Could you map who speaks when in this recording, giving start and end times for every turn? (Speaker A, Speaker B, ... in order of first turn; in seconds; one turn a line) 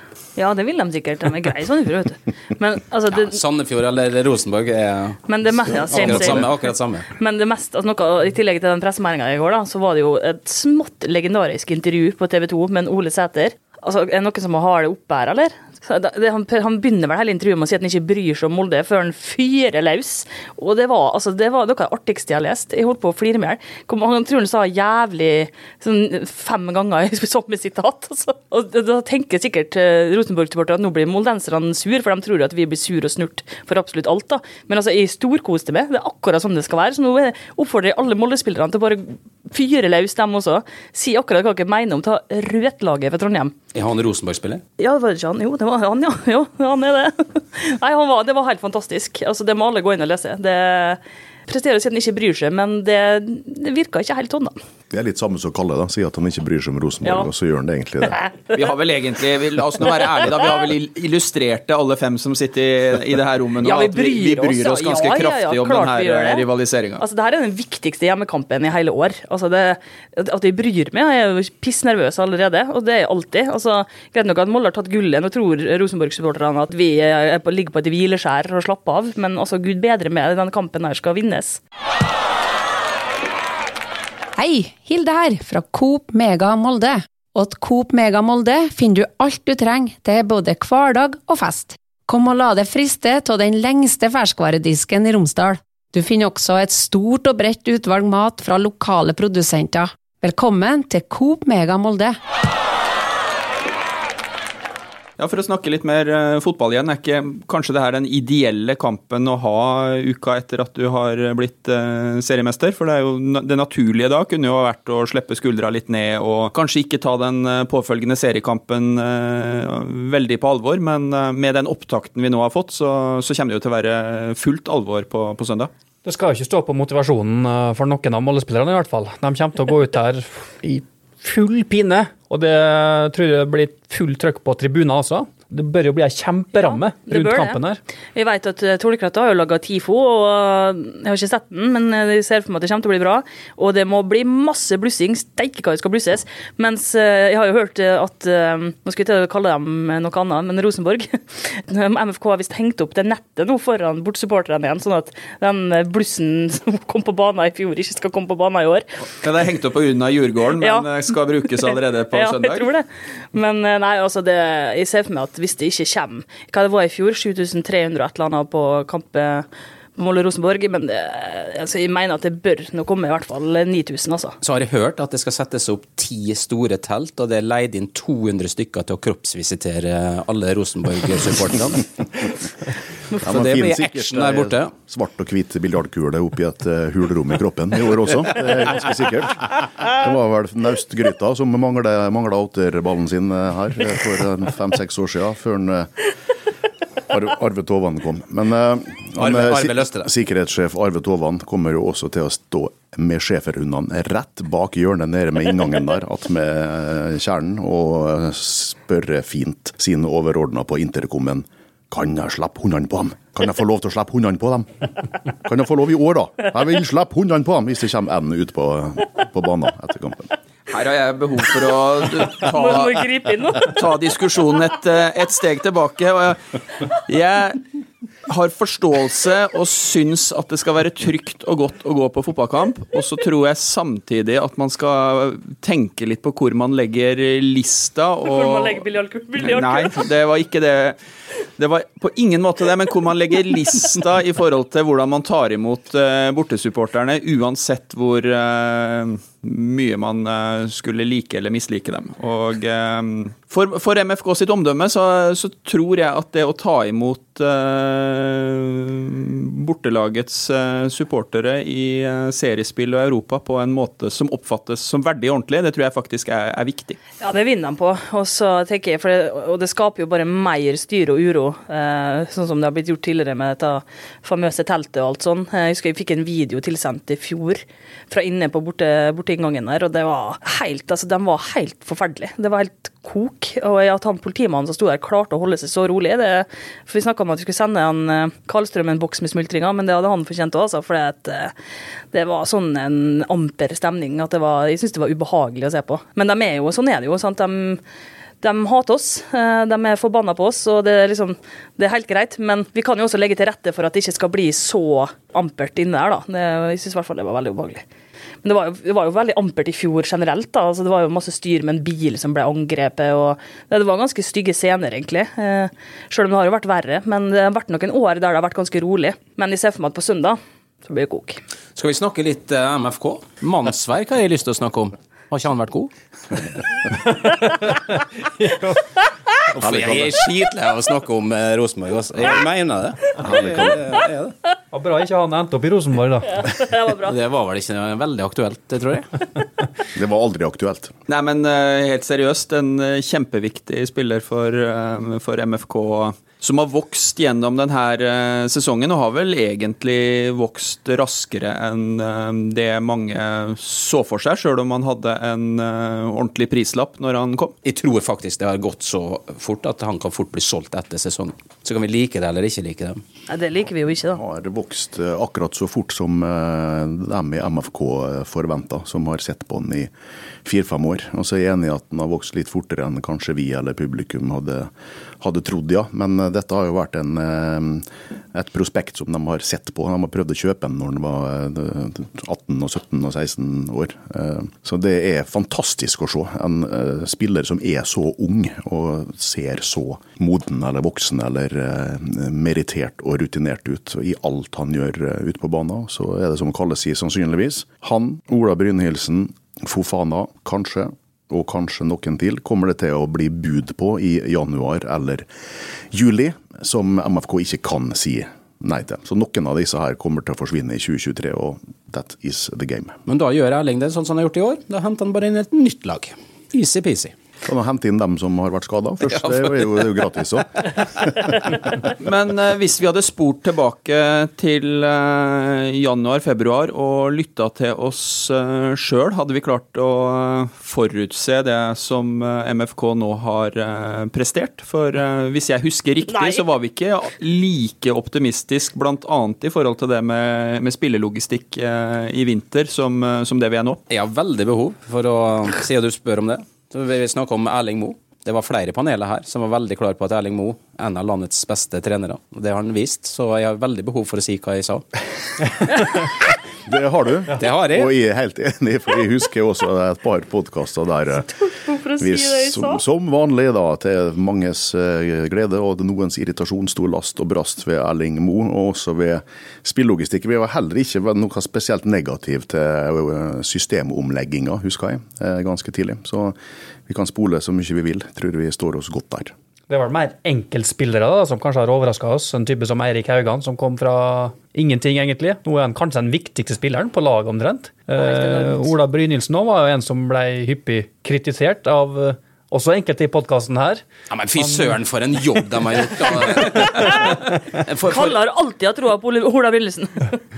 Speaker A: 0.3-3.4
Speaker B: 3.1-7.1
Speaker A: 5.3-43.5
Speaker C: 6.0-6.4
Speaker B: 43.7-44.6
Speaker A: 44.8-54.5
Speaker C: 54.9-58.2
Speaker A: 57.0-57.3
Speaker A: 58.1-58.6
Speaker D: 58.5-67.0
Speaker A: 63.6-66.5
Speaker A: 67.0-81.6
Speaker E: 84.3-102.2
Speaker D: 105.2-125.7
Speaker F: 126.0-137.8
Speaker A: 136.5-137.6
Speaker A: 138.1-158.8
Speaker D: 159.2-162.7
Speaker A: 160.6-160.9
Speaker A: 161.7-174.4
Speaker B: 174.4-182.3
Speaker B: 183.2-184.7
Speaker C: 183.2-195.9
Speaker C: 197.1-214.7
Speaker B: 199.2-200.1
Speaker C: 215.4-220.3
Speaker D: 220.7-223.0
Speaker A: 222.5-223.8
Speaker D: 223.5-226.4
Speaker D: 226.9-227.6
Speaker D: 228.3-238.8
Speaker A: 238.2-240.0
Speaker D: 239.4-241.0
Speaker D: 241.6-267.0
Speaker A: 267.2-291.5
Speaker A: 292.1-297.8
Speaker A: 298.4-307.8
Speaker A: 308.4-321.4
Speaker B: 321.8-325.9
Speaker C: 329.5-330.2
Speaker B: 329.6-334.3
Speaker C: 333.2-333.8
Speaker F: 334.7-336.4
Speaker A: 336.3-337.1
Speaker B: 337.0-339.1
Speaker C: 339.9-340.9
Speaker D: 341.1-357.5
Speaker B: 357.6-363.0
Speaker A: 363.3-364.2
Speaker C: 364.1-369.9
Speaker C: 370.4-374.7
Speaker C: 375.2-405.2
Speaker C: 405.9-413.0
Speaker B: 413.1-417.1
Speaker C: 417.4-421.5
Speaker B: 419.1-419.9
Speaker D: 422.0-443.8
Speaker A: 436.1-436.5
Speaker B: 443.9-454.8
Speaker C: 456.6-461.3
Speaker B: 457.4-457.9
Speaker A: 461.2-462.8
Speaker C: 462.0-476.3
Speaker C: 476.9-479.3
Speaker F: 479.7-493.8
Speaker A: 488.0-488.7
Speaker B: 494.1-498.2
Speaker F: 494.4-494.8
Speaker A: 496.8-497.2
Speaker A: 497.9-500.2